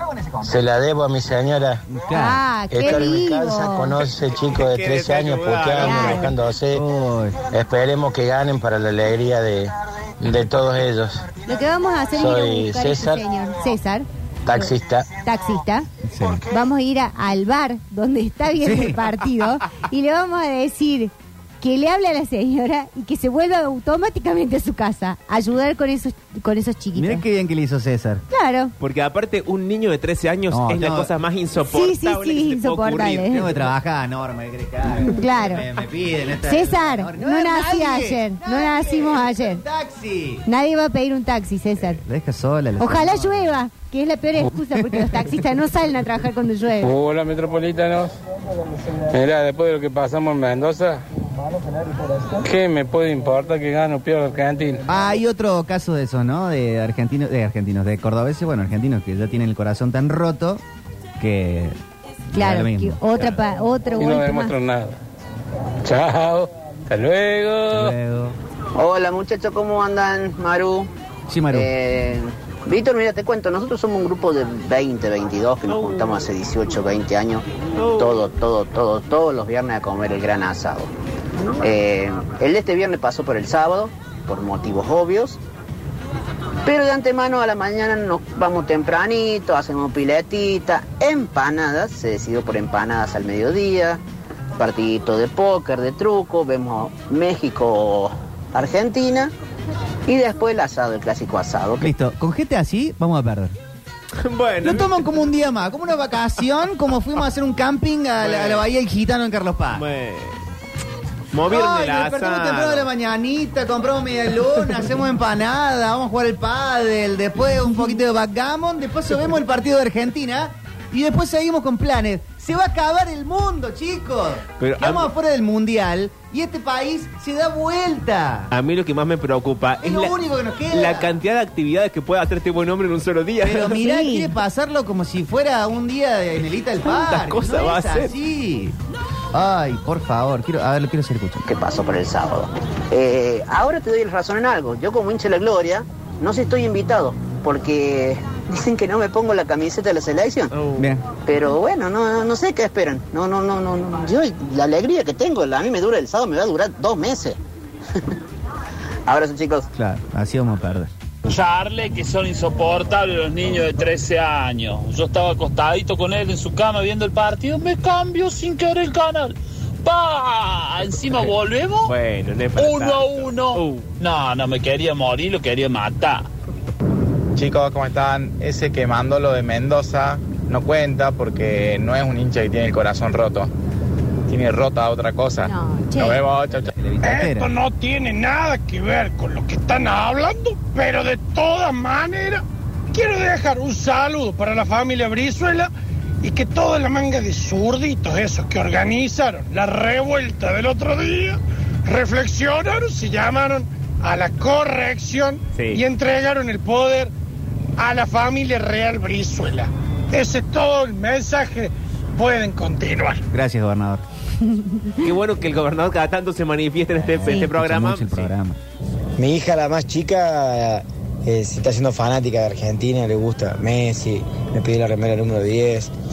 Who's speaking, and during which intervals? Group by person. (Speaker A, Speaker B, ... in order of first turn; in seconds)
Speaker A: 0.4-1.8, 2.7-6.8, 7.5-11.3, 12.1-13.2, 14.4-15.1
Speaker B: 1.9-2.4, 6.7-7.4, 16.1-16.4, 18.6-19.0, 26.9-28.2, 30.5-31.1, 33.3-40.4, 41.9-43.5, 54.9-60.6, 61.2-61.8, 62.4-63.0, 67.7-68.3, 71.3-71.7, 101.8-103.5, 104.6-109.8, 111.5-128.5, 129.8-131.1, 133.4-138.8, 139.3-141.4, 150.8-151.0, 159.7-160.9, 186.5-187.5, 213.3-214.0, 217.0-218.6
Speaker C: 2.1-3.9, 5.8-6.3, 11.5-15.9, 16.5-27.2, 28.3-28.7, 31.7-33.5, 35.1-35.6, 36.4-39.6, 40.5-42.0, 42.8-46.9, 62.3-64.5, 133.8-134.3, 185.4-186.3, 214.4-215.0
Speaker D: 4.3-6.3, 28.8-33.5, 104.2-105.0, 108.2-108.6, 109.7-110.4, 111.3-112.9, 124.6-125.1, 128.5-130.2, 130.7-133.8, 136.8-138.1, 150.5-150.9, 171.8-173.9, 205.5-205.8, 215.0-218.3
Speaker E: 46.8-48.2, 49.1-51.0, 52.4-54.8, 64.0-65.0, 65.8-67.9
Speaker F: 68.8-70.9, 71.5-77.4, 77.9-80.9, 81.6-85.4, 86.6-94.0, 94.6-99.3, 100.1-101.9, 141.4-150.5, 151.2-157.4, 159.1-159.7
Speaker G: 161.2-171.9, 172.6-176.3
Speaker H: 177.3-183.5, 184.3-186.7
Speaker I: 187.0-195.7, 196.2-207.1, 207.8-213.2
Speaker J: 219.2-225.9